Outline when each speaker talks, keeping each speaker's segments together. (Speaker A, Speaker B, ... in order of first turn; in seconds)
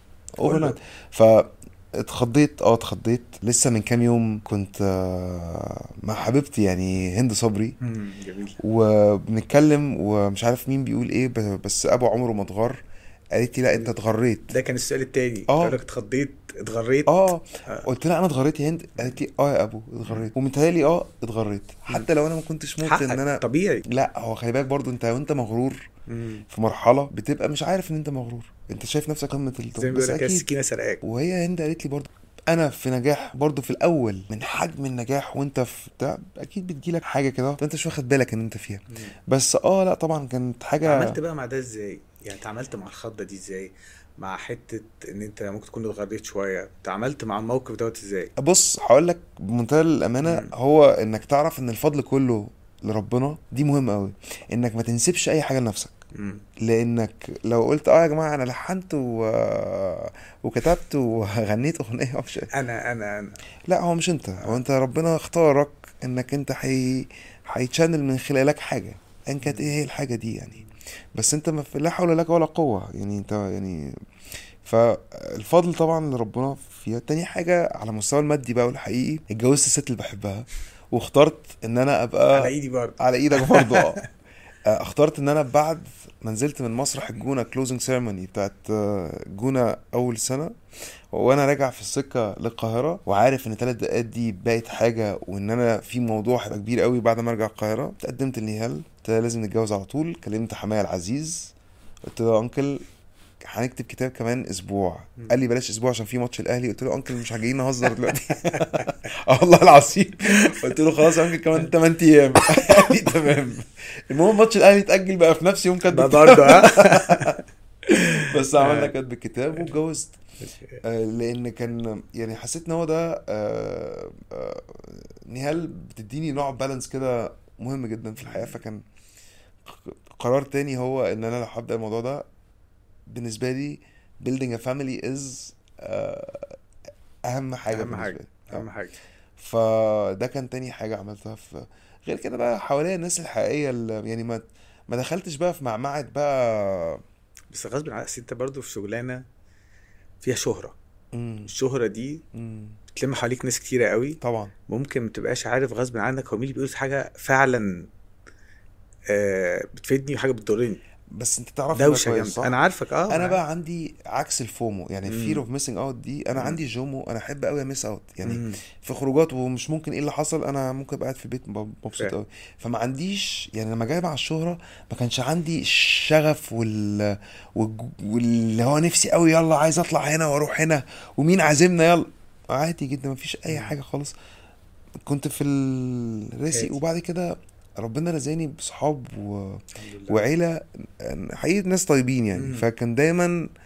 Speaker A: 0.4-7.8, 8.6-12.8, 13.3-14.5, 15.5-15.8, 17.1-25.8, 26.5-30.5, 31.0-41.2, 48.4-55.9, 56.6-62.5, 63.7-70.6, 71.1-74.0, 74.6-84.0, 84.7-90.5, 91.1-101.5, 102.0-102.8, 103.4-117.4, 118.2-120.2, 120.8-128.8, 129.6-132.2, 133.1-136.6, 137.3-138.7, 139.4-147.0, 151.1-151.5, 152.3-152.8, 154.2-154.5, 161.1-162.5, 163.1-184.1, 185.0-193.4
Speaker B: 0.4-0.8, 7.8-8.6, 14.5-17.9, 20.0-20.3, 22.8-23.8, 26.1-26.4, 29.8-31.0, 40.8-48.3, 50.2-50.5, 56.1-56.4, 62.5-63.4, 69.4-69.7, 82.3-84.0, 108.5-108.8, 115.9-118.9, 120.4-120.8, 128.2-128.6, 137.7-138.9, 147.5-149.2, 150.2-150.8, 151.4-152.2, 152.9-154.2, 154.7-157.8, 159.1-160.8, 161.7-163.4, 165.1-165.4, 168.2-168.6, 183.5-183.7, 186.5-186.8, 189.8-190.2, 192.3-192.7